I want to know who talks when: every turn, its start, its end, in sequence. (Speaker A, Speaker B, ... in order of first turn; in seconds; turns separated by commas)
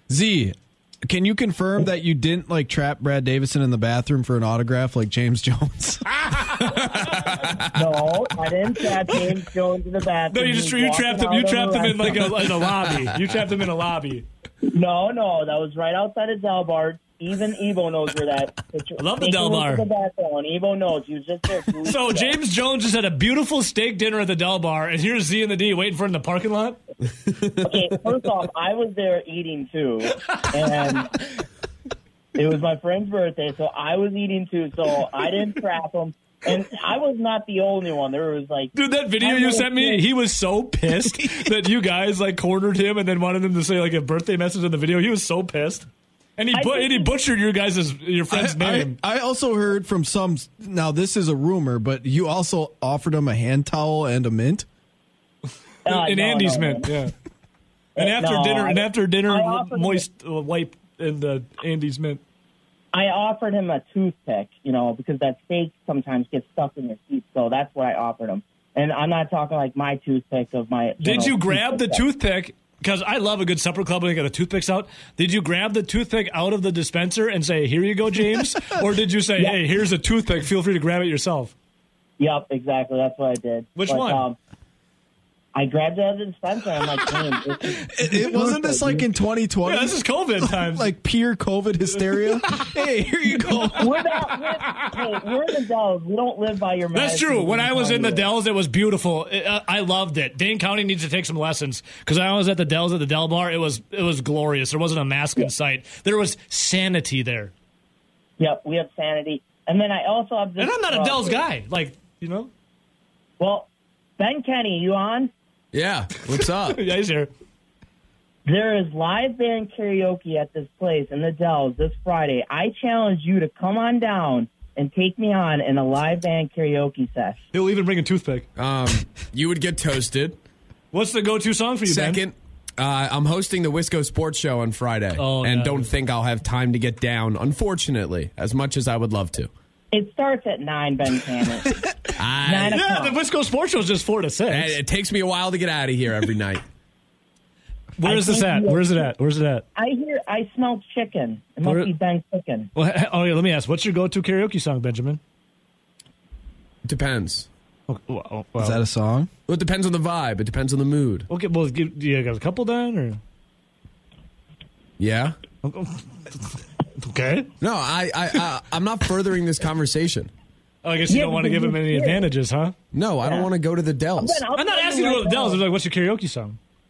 Speaker A: 0.1-6.2, Speaker B: 6.6-7.8, Speaker C: 7.7-12.4, Speaker D: 10.3-14.3, Speaker C: 14.6-22.4, Speaker D: 19.0-19.8, Speaker D: 21.8-26.8, Speaker B: 27.3-27.7, Speaker C: 27.6-31.3, Speaker C: 32.3-40.0, Speaker D: 38.7-49.0, Speaker C: 46.5-47.1, Speaker A: 48.3-54.6, Speaker C: 55.8-57.0, Speaker D: 55.8-57.1, Speaker C: 58.0-60.0, Speaker D: 58.0-62.2, Speaker C: 62.9-72.0, Speaker D: 71.0-81.5, Speaker C: 82.2-84.4, Speaker D: 83.7-84.2, Speaker C: 85.5-89.1, Speaker A: 87.9-94.0, Speaker D: 89.6-90.9, Speaker D: 92.2-92.6, Speaker C: 93.7-98.3, Speaker D: 96.9-107.5, Speaker C: 108.4-111.4, Speaker D: 110.6-112.5, Speaker C: 113.4-115.3, Speaker B: 115.7-116.8, Speaker D: 116.3-117.3, Speaker C: 118.5-127.4, Speaker D: 127.5-128.4, Speaker B: 128.6-130.4, Speaker D: 130.9-132.2, Speaker B: 131.9-139.5, Speaker D: 135.2-135.9, Speaker C: 139.9-141.7, Speaker B: 142.2-142.8, Speaker C: 142.4-143.2, Speaker D: 142.7-144.8, Speaker B: 144.5-146.6, Speaker D: 148.0-149.6, Speaker C: 148.0-149.1, Speaker C: 149.8-152.7, Speaker D: 151.6-151.9, Speaker D: 152.7-155.2, Speaker B: 156.8-157.5, Speaker D: 157.9-158.8, Speaker A: 158.6-159.3, Speaker B: 159.5-161.3, Speaker D: 161.3-163.2, Speaker B: 165.0-165.4, Speaker D: 165.6-166.1, Speaker D: 167.0-167.5, Speaker B: 167.6-170.3, Speaker D: 170.8-172.7, Speaker C: 171.1-172.3, Speaker B: 172.9-174.4, Speaker C: 173.2-173.5, Speaker C: 174.2-175.6, Speaker D: 174.6-176.6